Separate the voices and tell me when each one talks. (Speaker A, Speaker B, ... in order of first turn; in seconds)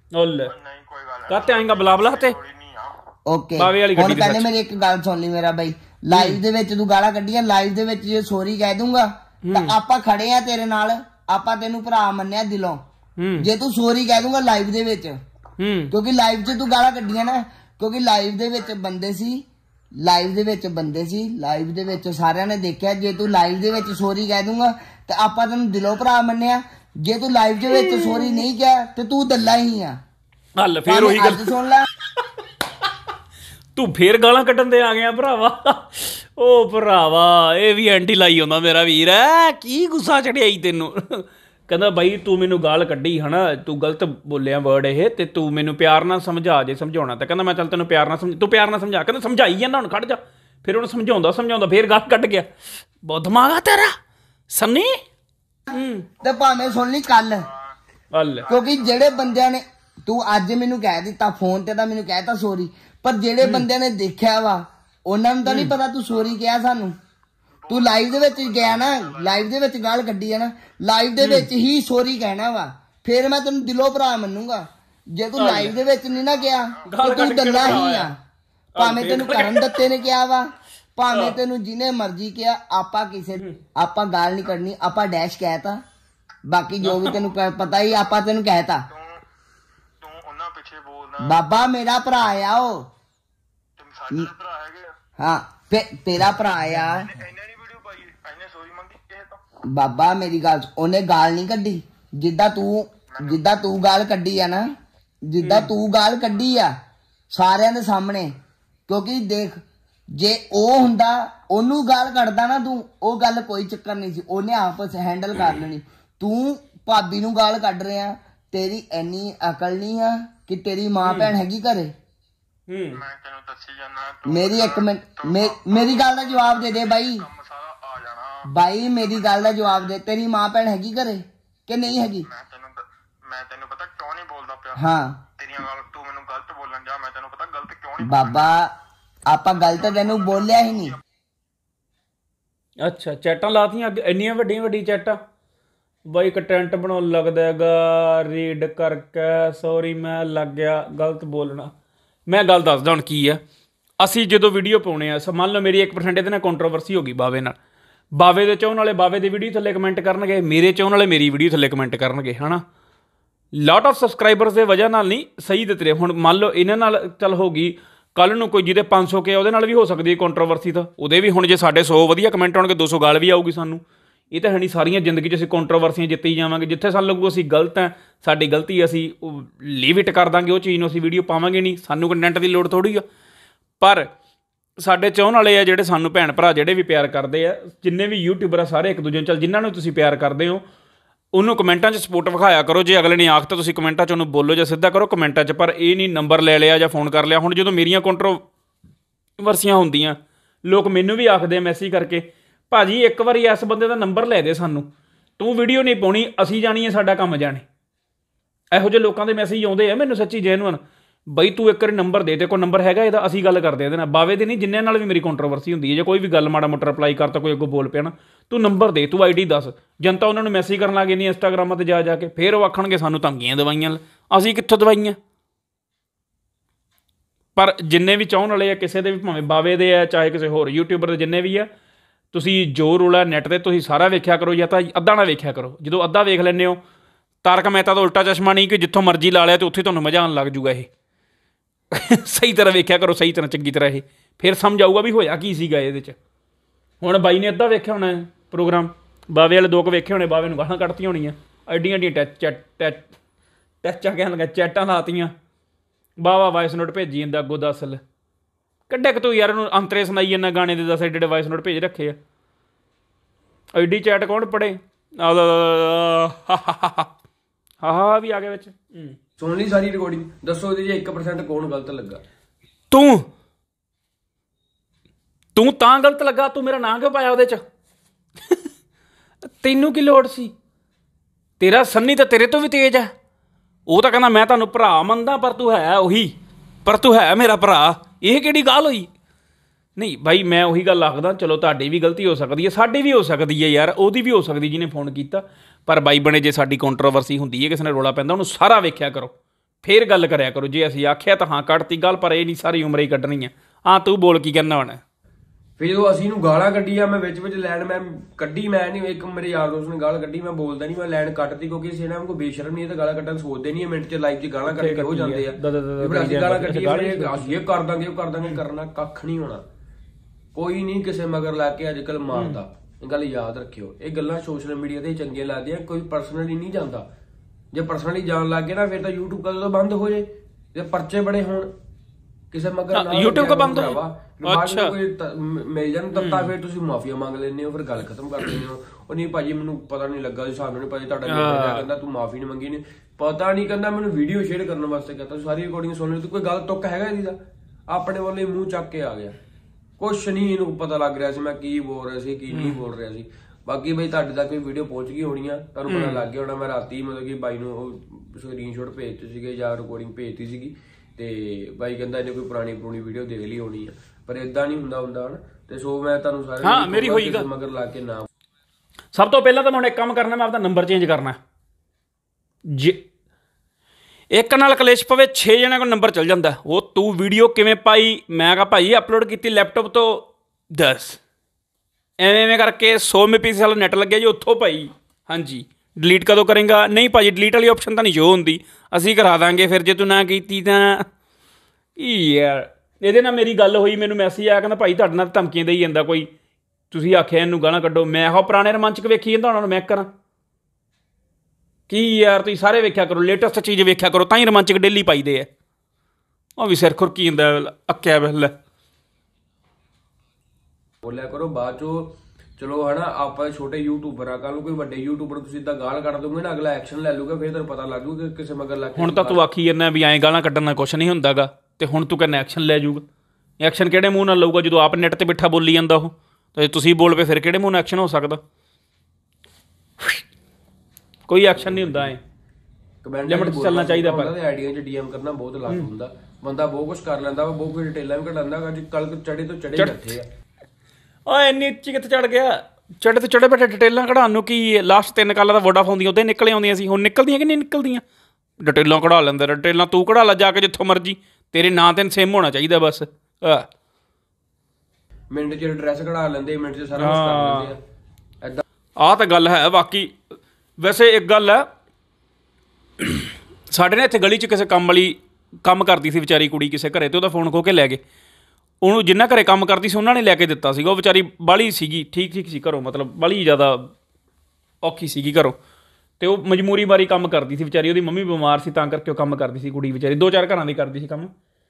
Speaker A: 0.1-0.5, 1.3-2.4, 3.6-4.5, 6.1-6.4, 9.4-9.8, 13.2-13.5, 15.6-15.9, 27.7-28.4, 30.6-31.5, 33.8-54.0, 54.5-55.0, 55.7-56.1, 58.1-58.5, 65.5-65.7, 71.2-71.5, 75.4-75.8, 76.8-78.1, 78.8-79.8, 81.1-81.4, 86.8-87.2, 105.4-105.7, 121.0-121.4, 122.7-123.0, 142.8-145.2, 146.1-151.7, 152.3-153.4, 154.0-157.6, 158.2-162.6, 163.5-183.0, 183.8-184.1, 184.8-190.6, 191.3-198.4, 199.4-207.6, 208.7-225.2, 227.6-231.7, 232.3-236.8, 237.4-240.9, 241.9-246.2, 247.0-253.1, 253.8-255.3, 256.2-258.0, 258.9-262.2, 263.8-267.1, 267.8-269.2, 272.9-273.3, 275.6-277.6, 279.5-280.5, 281.6-283.1, 283.9-286.3, 286.9-289.1, 290.0-305.0, 314.7-317.6, 322.3-322.6, 332.9-334.9, 336.1-336.5, 341.3-341.9, 355.9-356.2, 366.6-367.5, 369.1-371.4, 372.7-373.0, 374.3-381.2, 382.2-391.1, 392.0-396.3, 396.9-400.1, 401.9-405.5, 406.6-408.5, 419.0-423.1, 423.6-428.4, 431.3-432.2, 433.3-434.3, 439.8-440.0, 441.3-448.0, 448.6-453.7, 457.0-457.8, 459.0-460.2, 460.8-461.7, 463.0-468.0, 468.8-473.9, 474.8-475.6, 476.2-481.3
Speaker B: 0.5-3.0, 56.2-56.8, 58.5-59.4, 67.7-69.5, 76.2-76.9, 88.9-89.2, 90.0-91.4, 93.8-94.9, 96.9-99.4, 103.1-103.4, 122.9-128.5, 129.0-129.9, 132.3-134.8, 135.3-138.5, 139.8-140.8
Speaker C: 3.3-12.8, 13.4-15.2, 15.9-19.4, 20.0-30.0, 30.9-31.9, 56.2-57.5, 58.5-67.0, 67.7-78.2, 78.8-85.8, 86.5-88.9, 91.2-92.9, 95.2-97.1, 99.7-104.7, 105.3-106.7, 107.3-108.3, 108.9-121.9, 124.3-127.2, 128.5-132.3, 134.8-135.2, 138.0-138.7, 139.3-140.9
Speaker D: 269.4-272.2, 305.8-319.6, 320.6-327.1, 327.7-331.7, 332.5-347.4, 347.9-349.3, 350.0-368.3, 411.0-419.4, 431.6-432.1, 433.0-440.3, 455.3-457.8